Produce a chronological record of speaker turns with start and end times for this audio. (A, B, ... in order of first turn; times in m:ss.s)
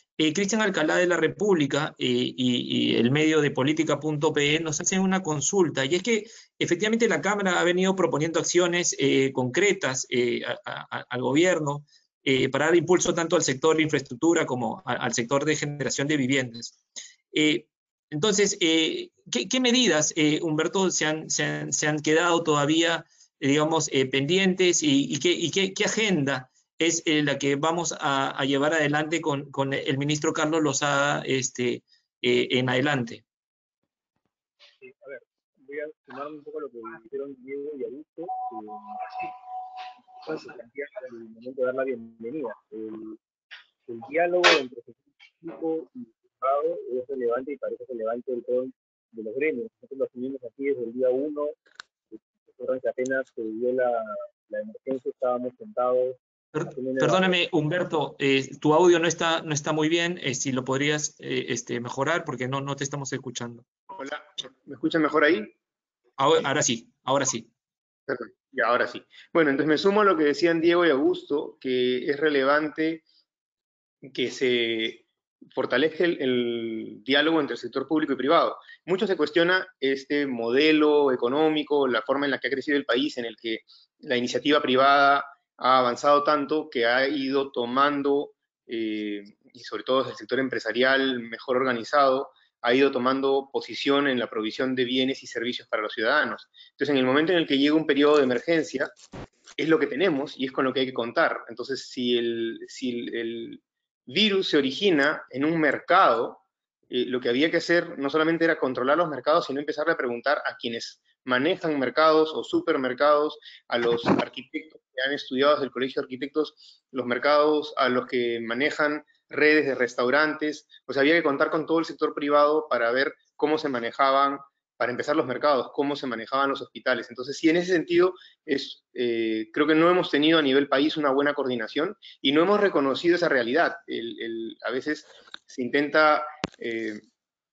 0:00.2-0:16.8 A
0:17.3-0:33.2 A
0:34.8-0:39.1 B
0:40.2-0:43.2 B
0:43.9-0:51.6 B
0:52.5-0:57.4 B
0:56.6-1:03.6 A
1:03.9-1:05.5 C
1:06.2-1:07.5 A
1:08.1-1:13.0 C
1:14.1-1:38.9 C
1:39.6-2:17.0 C